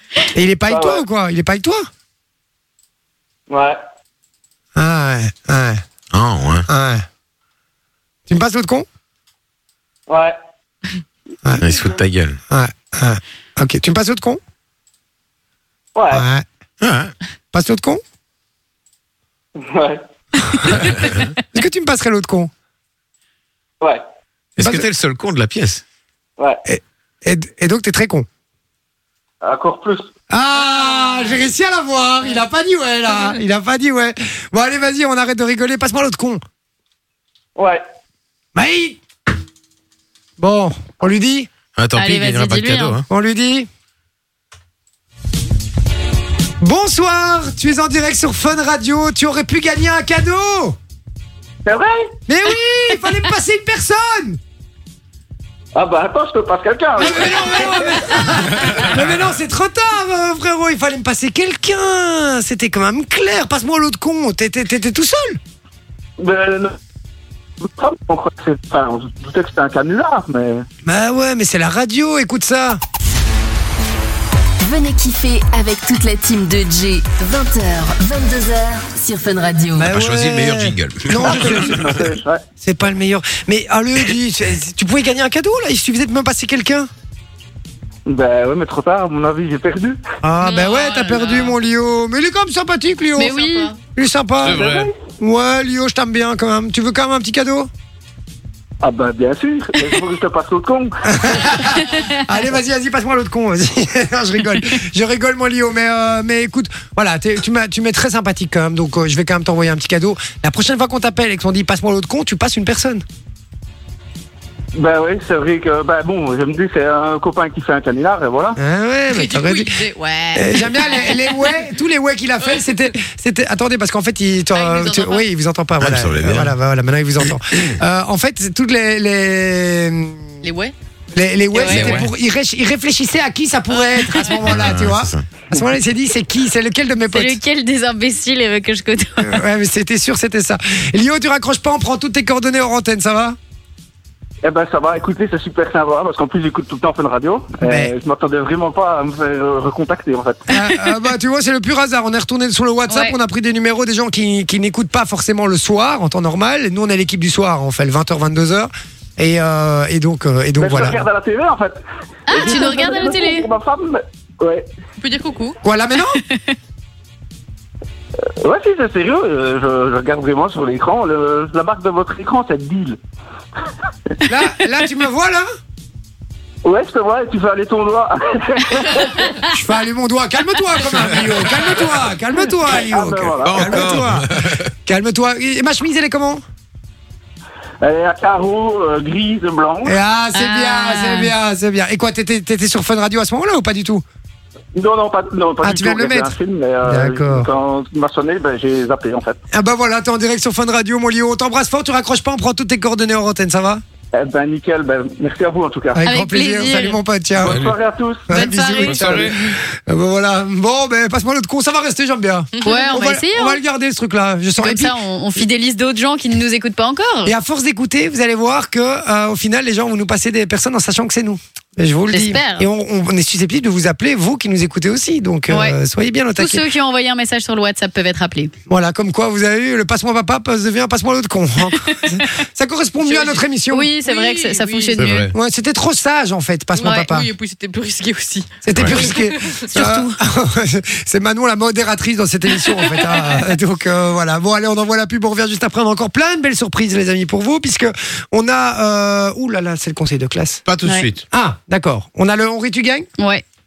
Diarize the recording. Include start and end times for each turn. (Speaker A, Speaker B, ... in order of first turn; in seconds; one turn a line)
Speaker A: 0.3-1.9
Speaker B: 0.7-1.0
Speaker B: 3.5-3.8
Speaker A: 4.8-5.8
Speaker C: 6.1-6.7
Speaker A: 6.7-7.1
Speaker A: 8.3-8.9
Speaker B: 10.1-10.4
Speaker C: 11.6-12.4
Speaker A: 12.5-14.4
Speaker B: 15.9-16.2
Speaker A: 16.1-16.4
Speaker C: 16.8-17.1
Speaker A: 17.5-18.0
Speaker B: 19.6-20.0
Speaker A: 21.5-22.5
Speaker C: 24.6-25.8
Speaker A: 24.6-24.9
Speaker A: 26.6-28.3
Speaker B: 29.4-30.1
Speaker A: 30.3-36.4
Speaker B: 37.6-37.8
Speaker A: 38.5-39.0
Speaker A: 40.4-41.5
Speaker C: 41.8-43.0
Speaker D: 42.0-43.0
Speaker A: 43.1-43.7
Speaker A: 46.6-50.8
Speaker B: 51.7-52.1
Speaker A: 52.3-54.4
Speaker B: 55.8-58.1
Speaker A: 57.0-65.4
Speaker B: 66.2-66.8
Speaker B: 67.7-70.7
Speaker A: 70.8-72.8
Speaker E: 74.6-79.9
Speaker A: 79.8-82.0
Speaker C: 79.8-82.0
Speaker B: 81.3-82.4
Speaker A: 82.6-86.9
Speaker B: 88.1-90.0
Speaker A: 90.2-93.4
Speaker F: 90.4-91.6
Speaker D: 93.2-93.7
Speaker F: 93.2-93.8
Speaker A: 94.0-94.7
Speaker C: 94.4-94.9
Speaker B: 94.5-94.9
Speaker A: 95.2-97.7
Speaker B: 98.8-101.5
Speaker A: 101.0-113.0
Speaker D: 101.7-102.1
Speaker B: 114.8-118.6
Speaker A: 118.6-119.8
Speaker F: 119.1-121.6
Speaker A: 120.3-130.4
Speaker F: 124.5-125.3
Speaker C: 125.8-126.5
Speaker F: 130.4-130.7
Speaker A: 131.1-137.4
Speaker F: 131.6-132.0
Speaker C: 131.7-132.1
Speaker C: 134.5-135.2
Speaker D: 137.1-139.4
Speaker A: 139.2-143.4
Speaker B: 144.4-150.4
Speaker A: 147.6-147.9
Speaker A: 150.5-161.1
Speaker D: 152.9-153.2
Speaker B: 160.6-164.7
Speaker D: 162.3-163.5
Speaker F: 165.0-165.6
Speaker A: 165.6-166.2
Speaker D: 166.2-166.5
Speaker B: 168.4-173.0
Speaker A: 174.3-175.5
Speaker B: 176.7-179.2
Speaker A: 179.5-184.3
Speaker B: 182.7-184.0
Speaker C: 183.4-184.7
Speaker A: 184.9-186.4
Speaker B: 187.8-190.0
Speaker A: 189.8-194.0
Speaker D: 190.3-191.3
Speaker B: 194.8-199.4
Speaker A: 195.6-196.3
Speaker A: 196.8-197.5
Speaker A: 199.5-203.8
Speaker B: 204.1-206.0
Speaker A: 205.9-207.7
Speaker D: 206.0-207.0
Speaker C: 207.4-207.8
Speaker B: 207.4-208.3
Speaker A: 208.3-214.9
Speaker D: 208.4-208.7
Speaker C: 208.8-209.3
Speaker F: 212.6-213.0
Speaker D: 212.6-213.6
Speaker D: 214.6-217.3
Speaker A: 217.2-226.7
Speaker D: 222.1-222.7
Speaker D: 225.5-225.8
Speaker D: 226.4-228.5
Speaker A: 228.7-233.9
Speaker F: 233.0-233.5
Speaker D: 233.7-235.3
Speaker F: 234.0-235.0
Speaker C: 235.0-235.3
Speaker A: 235.3-237.3
Speaker D: 236.8-237.1
Speaker F: 236.9-239.6
Speaker A: 238.7-250.6
Speaker C: 238.8-239.0
Speaker D: 239.7-240.2
Speaker C: 250.7-251.2
Speaker A: 251.3-253.1
Speaker D: 253.2-253.4